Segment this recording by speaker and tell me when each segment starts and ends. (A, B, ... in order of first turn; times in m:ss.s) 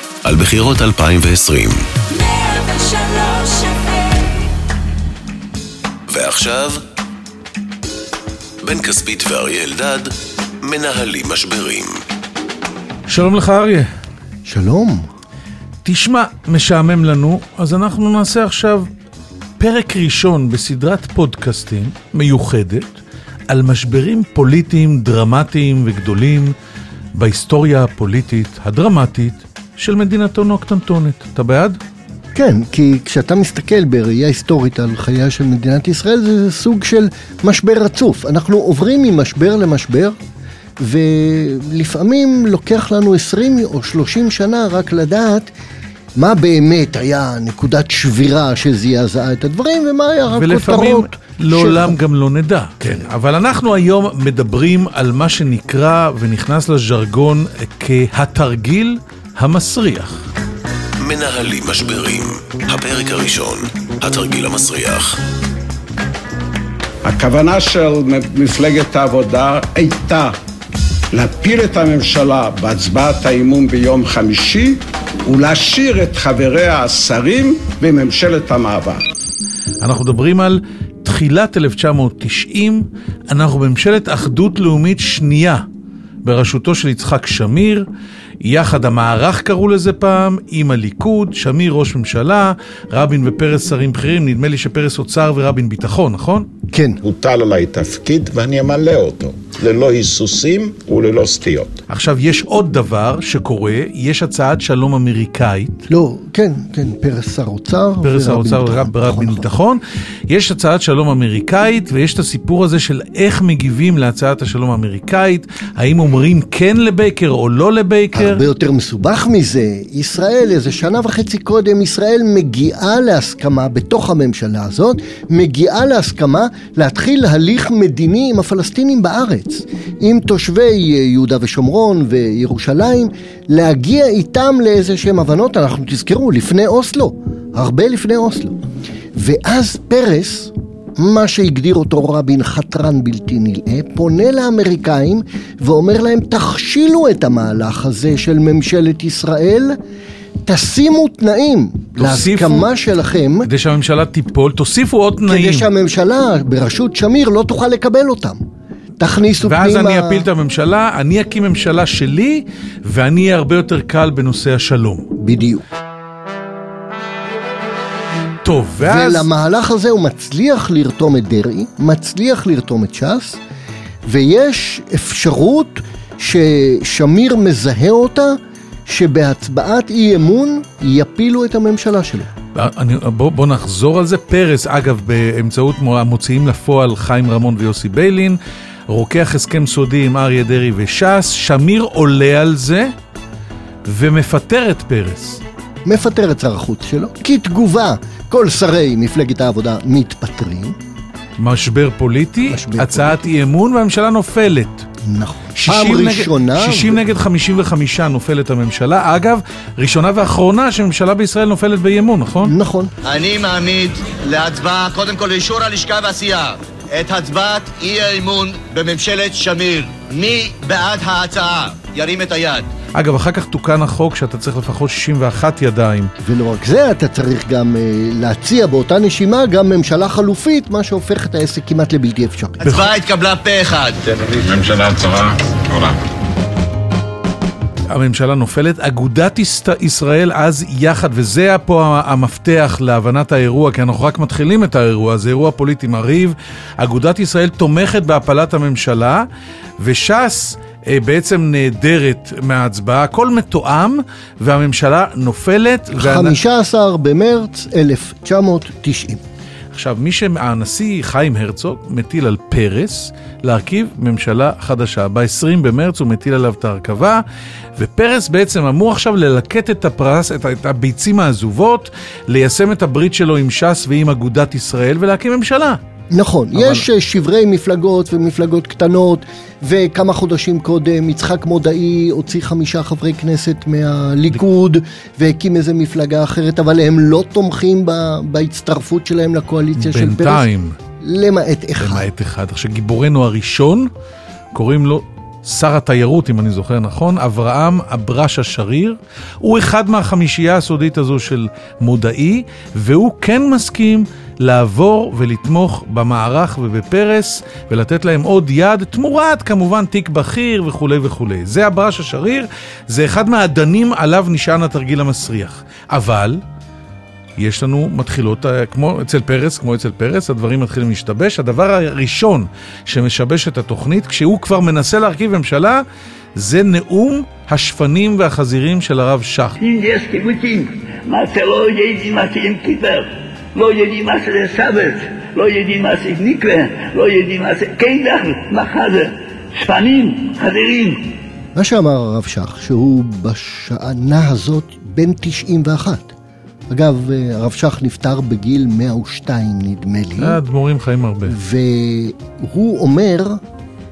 0:00.2-0:04.0 A
0:06.1-0:06.8 A
0:08.6-0:11.9 A
0:13.1-0:13.9 B
0:14.4-0:15.0 C
0:15.8-0:18.9 B
0:19.6-0:26.5 B
0:27.2-0:31.8 B
0:32.3-0:40.1 C
0:40.8-0:45.5 C
0:46.2-0:52.0 C
0:50.3-1:00.2 B
1:01.0-1:05.2 A
1:07.0-1:10.4 D
1:11.1-1:19.0 D
1:19.8-1:25.6 B
1:26.2-1:27.8 B
1:28.4-1:36.5 B
1:36.7-1:37.0 C
1:37.0-1:41.8 E
1:41.9-1:45.9 B
1:45.9-1:49.5 C
1:48.0-1:58.4 B
1:58.1-2:18.6 C
2:19.2-2:29.8 C
2:30.4-2:33.5 C
2:32.0-2:32.7 B
2:33.4-2:35.7 B
2:35.2-2:38.4 C
2:39.0-2:40.2 C
2:39.4-2:45.1 B
2:45.2-2:45.6 C
2:48.4-2:49.3 B
2:48.8-2:53.4 C
2:54.1-2:58.4 C
2:58.9-3:02.3 C
3:02.5-3:08.4 B
3:08.9-3:12.9 B
3:13.8-3:15.4 B
3:15.8-3:20.7 C
3:21.4-3:24.9 B
3:22.5-3:23.2 C
3:25.1-3:27.0 C
3:25.5-3:32.5 B
3:32.4-3:32.9 C
3:33.0-3:42.7 F
3:42.9-3:46.1 B
3:46.2-3:52.6 C
3:52.6-3:52.9 B
3:52.6-3:54.4 F
3:54.1-3:56.0 E
3:57.9-4:09.2 B
4:09.8-4:16.4 B
4:16.0-4:19.2 C
4:19.7-4:27.2 B
4:27.8-4:35.8 B
4:36.1-4:50.5 C
4:36.5-4:36.8 B
4:49.8-4:50.8 B
4:51.0-4:52.1 C
4:51.8-4:53.9 B
4:54.5-5:16.4 B
5:17.4-5:25.8 B
5:26.4-5:29.6 B
5:29.6-5:41.1 G
5:41.5-5:46.1 C
5:46.7-5:50.4 C
5:50.2-5:51.4 B
5:51.2-5:53.4 C